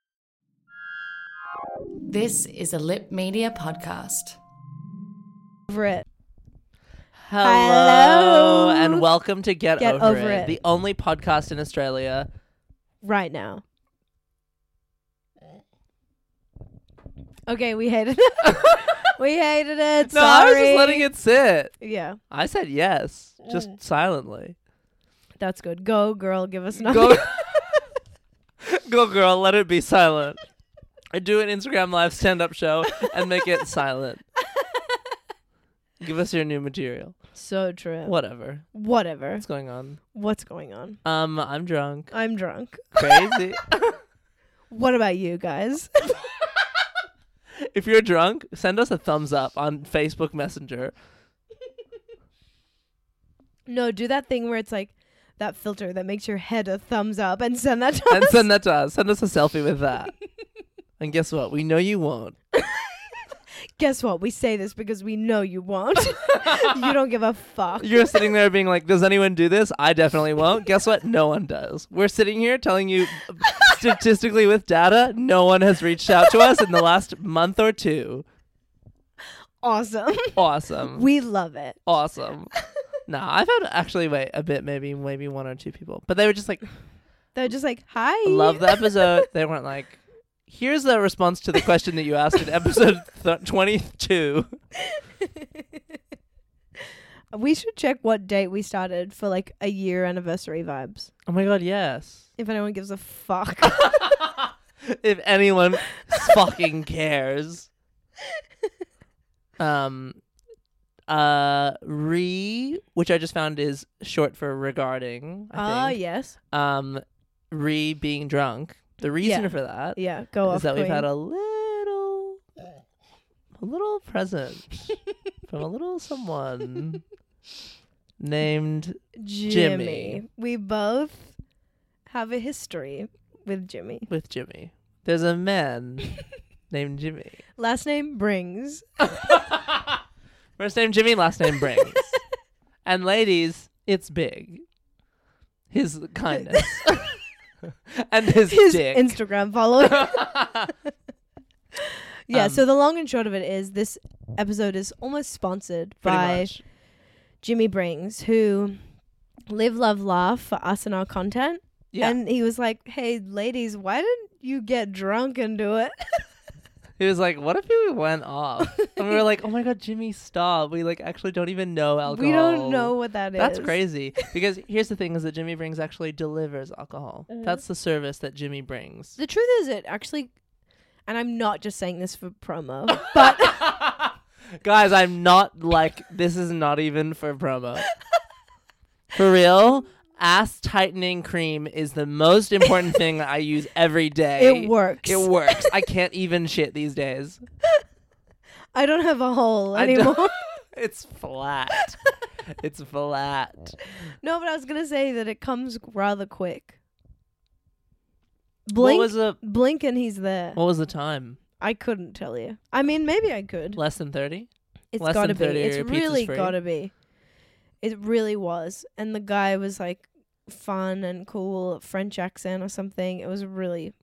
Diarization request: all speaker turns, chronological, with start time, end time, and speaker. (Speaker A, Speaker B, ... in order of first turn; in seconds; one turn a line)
Speaker A: 2.1-4.4
Speaker B: 5.7-6.0
Speaker C: 7.2-12.3
Speaker B: 7.4-9.0
Speaker B: 9.8-10.6
Speaker B: 13.0-13.6
Speaker B: 17.5-21.1
Speaker C: 18.4-19.1
Speaker C: 20.1-21.8
Speaker B: 21.8-22.2
Speaker C: 22.3-24.6
Speaker B: 25.4-27.8
Speaker C: 26.8-27.7
Speaker C: 28.6-30.4
Speaker C: 31.1-34.2
Speaker C: 36.0-37.2
Speaker B: 37.4-38.1
Speaker C: 38.0-38.8
Speaker B: 38.7-39.5
Speaker C: 39.4-40.0
Speaker B: 40.1-41.0
Speaker C: 41.0-42.1
Speaker B: 42.1-43.4
Speaker C: 43.0-44.0
Speaker B: 44.7-46.2
Speaker C: 47.6-50.9
Speaker B: 53.7-58.4
Speaker C: 58.1-60.1
Speaker C: 61.0-62.4
Speaker B: 62.6-62.9
Speaker B: 63.8-68.2
Speaker C: 66.2-66.9
Speaker C: 67.8-78.2
Speaker B: 79.6-80.4
Speaker C: 80.4-81.1
Speaker B: 81.0-81.8
Speaker C: 81.9-82.5
Speaker C: 83.1-86.7
Speaker B: 87.3-89.2
Speaker C: 88.2-94.6
Speaker B: 94.9-95.4
Speaker B: 97.3-101.1
Speaker C: 101.3-102.3
Speaker B: 102.4-104.0
Speaker C: 103.6-107.7
Speaker C: 109.6-110.2
Speaker C: 111.1-116.0
Speaker B: 115.5-116.4
Speaker C: 116.5-122.4
Speaker B: 119.2-121.1
Speaker C: 123.6-127.0
Speaker C: 128.2-130.2
Speaker B: 129.2-131.4
Speaker B: 132.1-134.1
Speaker C: 134.1-136.2
Speaker C: 136.7-137.4
Speaker B: 137.6-138.8
Speaker C: 139.0-140.0
Speaker C: 140.6-142.2
Speaker B: 141.7-142.0
Speaker C: 142.8-144.6
Speaker C: 145.7-147.1
Speaker B: 146.5-147.1
Speaker C: 147.9-149.1
Speaker B: 148.5-150.3
Speaker C: 149.8-150.7
Speaker B: 152.3-156.5
Speaker C: 152.3-152.6
Speaker C: 156.0-156.6
Speaker B: 157.4-158.8
Speaker B: 159.5-166.2
Speaker C: 167.0-179.2
Speaker B: 172.1-173.8
Speaker B: 179.2-180.3
Speaker B: 181.1-183.8
Speaker C: 183.0-187.9
Speaker C: 189.1-197.4
Speaker B: 194.4-195.7
Speaker B: 198.8-200.4
Speaker C: 199.8-202.0
Speaker C: 202.5-203.8
Speaker B: 204.2-206.8
Speaker B: 208.7-210.6
Speaker C: 208.8-209.4
Speaker C: 210.6-211.4
Speaker B: 211.6-213.8
Speaker C: 213.8-214.5
Speaker B: 214.9-216.9
Speaker C: 215.0-216.6
Speaker B: 217.8-223.9